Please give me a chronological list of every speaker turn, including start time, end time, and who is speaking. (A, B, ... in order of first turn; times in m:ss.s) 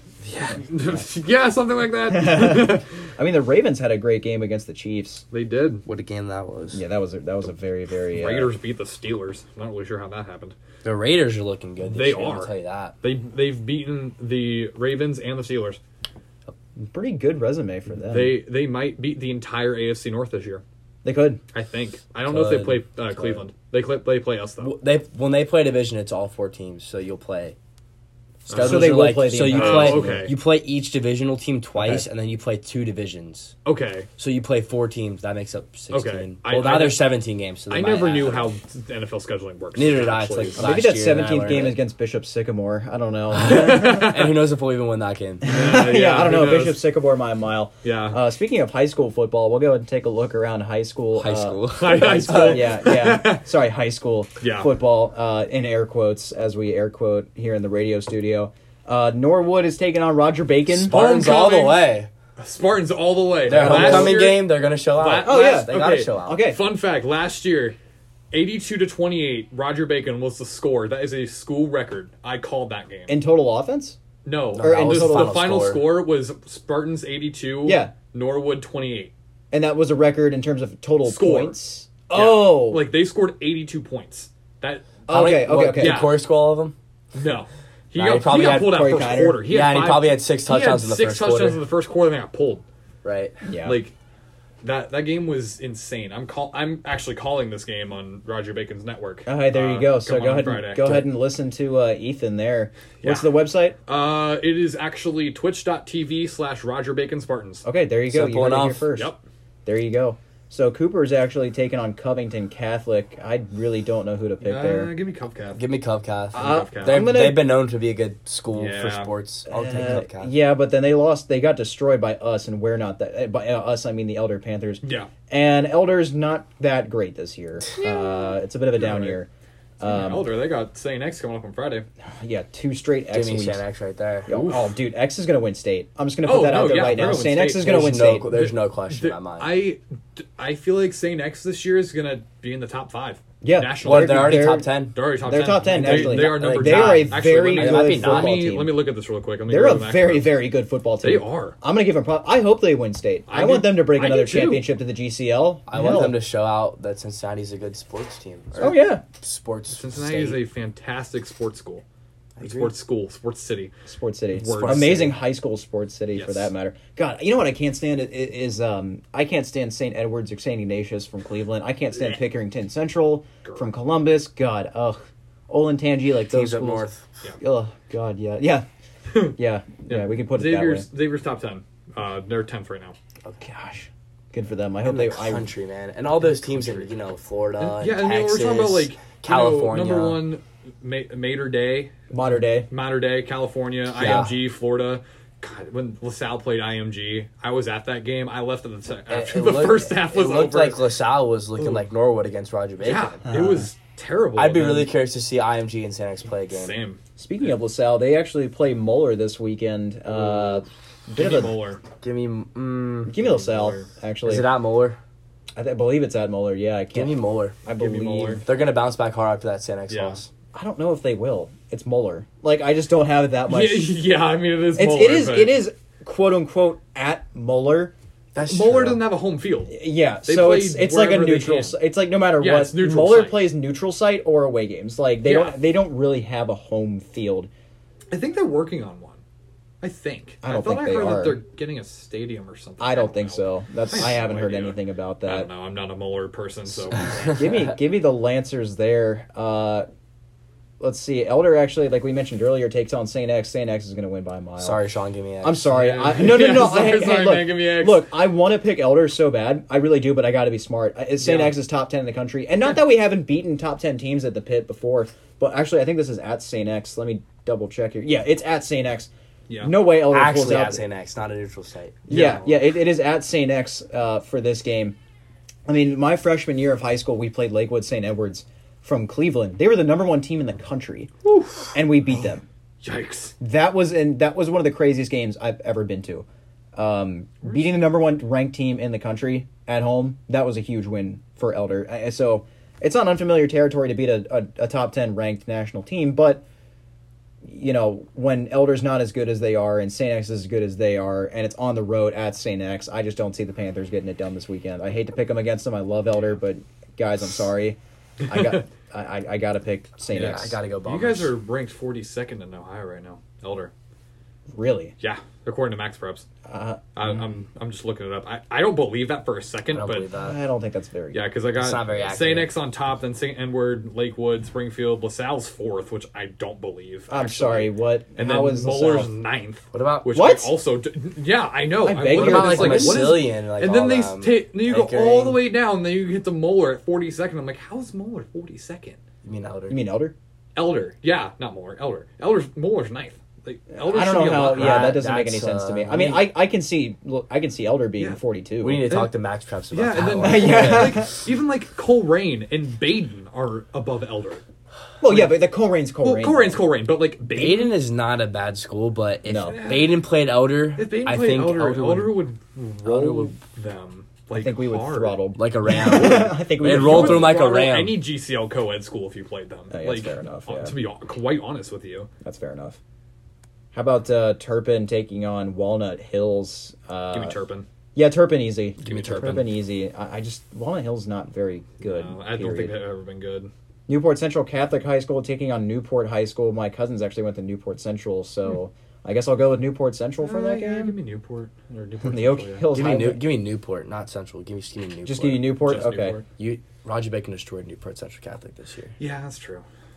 0:00.3-0:02.9 A
0:02.1-0:05.2 B
0:05.3-0:05.8 A
0:05.8-0:06.8 C
0:06.7-0:08.5 B
0:08.1-0:10.6 A
0:10.8-0:13.0 C
0:11.8-0:12.5 A
0:13.0-0:15.8 A
0:16.8-0:18.4 B
0:18.0-0:20.6 A
0:21.0-0:21.4 B
0:21.5-0:24.8 A
0:22.2-0:23.4 C
0:24.6-0:27.6 C
0:28.5-0:33.6 C
0:28.5-0:30.4 A
0:28.6-0:30.3 B
0:31.8-0:32.1 B
0:33.6-0:34.1 A
0:34.2-0:38.5 C
0:35.9-0:37.0 A
0:37.7-0:40.7 A
0:39.8-0:41.8 C
0:40.6-0:44.2 B
0:43.3-0:45.5 C
0:43.4-0:44.3 A
0:45.4-1:01.0 B
0:45.4-0:46.8 A
0:47.8-0:48.2 A
0:51.2-0:52.7 C
0:51.8-0:53.5 A
0:54.4-0:54.7 A
1:00.7-1:02.1 C
1:00.8-1:01.8 A
1:02.4-1:07.8 A
1:03.5-1:06.4 C
1:03.5-1:04.2 B
1:05.2-1:06.6 B
1:08.3-1:13.1 A
1:13.1-1:14.0 B
1:14.2-1:19.1 A
1:14.5-1:16.0 C
1:14.6-1:15.5 B
1:17.6-1:17.9 B
1:19.5-1:22.9 B
1:21.0-1:21.6 A
1:22.1-1:25.0 A
1:25.1-1:26.0 B
1:25.1-1:26.8 C
1:25.7-1:26.2 A
1:27.1-1:32.6 A
1:28.0-1:28.8 C
1:28.2-1:29.5 B
1:29.5-1:31.6 C
1:33.0-1:33.4 C
1:33.4-1:33.8 B
1:33.6-1:33.9 A
1:34.6-1:41.1 A
1:39.3-1:43.8 B
1:43.0-1:47.6 A
1:47.6-1:49.1 B
1:48.1-1:48.9 C
1:49.7-1:54.9 B
1:54.4-1:55.6 A
1:55.6-2:00.3 C
1:56.3-1:57.1 A
1:56.3-1:57.5 B
1:58.5-1:59.1 A
1:59.5-2:09.3 B
2:04.8-2:05.1 A
2:07.8-2:09.2 A
2:09.8-2:10.4 B
2:09.8-2:11.9 A
2:12.2-2:13.6 B
2:13.1-2:14.3 C
2:14.3-2:18.3 B
2:14.3-2:14.7 A
2:16.2-2:30.3 A
2:17.6-2:19.6 C
2:23.4-2:28.8 B
2:23.8-2:25.0 C
2:25.7-2:28.6 C
2:29.5-2:36.2 B
2:31.0-2:31.6 A
2:33.3-2:34.7 A
2:35.7-2:40.4 C
2:38.6-2:39.0 B
2:39.7-2:41.8 A
2:42.4-2:42.8 C
2:42.4-2:43.8 A
2:43.9-2:56.9 B
2:44.3-2:45.0 A
2:44.4-2:45.2 C
2:46.1-2:46.5 A
2:53.4-2:53.7 A
2:56.3-2:57.1 C
2:57.4-2:58.7 B
2:59.1-2:59.4 A
2:59.4-3:00.9 B
2:59.9-3:03.0 A
3:03.4-3:05.5 B
3:04.8-3:10.2 C
3:07.6-3:12.1 A
3:12.1-3:12.7 B
3:12.7-3:20.9 A
3:14.0-3:14.3 C
3:14.0-3:14.3 B
3:19.1-3:23.2 C
3:21.6-3:21.8 A
3:22.8-3:24.9 A
3:23.2-3:23.7 B
3:24.4-3:26.8 C
3:26.5-3:27.0 A
3:27.2-3:31.6 B
3:31.1-3:31.8 A
3:32.0-3:33.4 C
3:33.1-3:34.5 B
3:33.4-3:33.9 A
3:34.2-3:35.0 C
3:35.6-3:38.4 B
3:36.9-3:37.6 C
3:37.7-3:38.4 A
3:38.5-3:40.3 C
3:39.9-3:40.2 A
3:40.5-3:44.0 B
3:43.5-3:45.6 A
3:44.8-3:47.9 B
3:48.4-3:49.0 C
3:48.4-3:51.8 A
3:49.7-3:57.5 B
3:52.4-3:53.5 A
3:55.2-3:55.6 A
3:58.1-3:59.2 A
3:59.8-4:07.5 A
4:00.4-4:01.4 B
4:02.8-4:05.5 B
4:07.3-4:09.9 B
4:10.8-4:14.8 B
4:14.6-4:15.6 C
4:15.4-4:29.1 B
4:15.7-4:18.1 A
4:21.2-4:21.6 A
4:29.5-4:29.8 A
4:29.6-4:30.8 B
4:30.0-4:32.5 C
4:32.1-4:35.0 B
4:35.7-4:41.1 B
4:41.3-4:41.6 A
4:41.7-4:42.4 B
4:42.8-4:43.4 A
4:43.4-4:56.4 B
4:57.5-5:10.6 B
5:08.3-5:08.6 A
5:10.1-5:11.3 C
5:10.1-5:13.7 A
5:14.5-5:15.0 B
5:15.0-5:16.3 A
5:16.5-5:17.2 B
5:17.0-5:20.1 A
5:19.7-5:20.4 C
5:20.1-5:21.2 B
5:21.1-5:39.0 A
5:21.6-5:22.5 C
5:27.1-5:29.1 B
5:29.7-5:30.1 C
5:30.1-5:30.5 B
5:31.8-5:33.2 B
5:32.0-5:35.4 C
5:39.2-5:39.8 C
5:39.7-5:40.2 B
5:40.6-5:44.9 A
5:43.8-5:48.9 B
5:44.4-5:46.3 C
5:48.6-5:51.1 C
5:49.7-5:54.4 A
5:50.2-5:51.2 B
5:55.0-5:56.6 B
5:55.0-5:55.4 A
5:56.0-5:57.8 A
5:57.3-6:02.3 C
5:59.2-5:59.6 B
5:59.5-6:00.1 A
6:00.8-6:05.2 A
6:02.8-6:03.4 C
6:04.3-6:07.4 B
6:05.4-6:08.0 C
6:06.5-6:12.1 A
6:09.7-6:10.7 B
6:12.2-6:12.8 B
6:13.7-6:17.4 B
6:17.1-6:17.7 A
6:18.0-6:22.7 B
6:18.8-6:19.5 C
6:18.9-6:19.4 A
6:21.8-6:23.5 A
6:23.9-6:31.0 B
6:30.2-6:32.7 A
6:32.0-6:33.2 B
6:32.7-6:35.7 C
6:35.1-6:36.2 B
6:35.7-6:36.2 A
6:36.4-6:39.0 C
6:39.0-6:39.6 A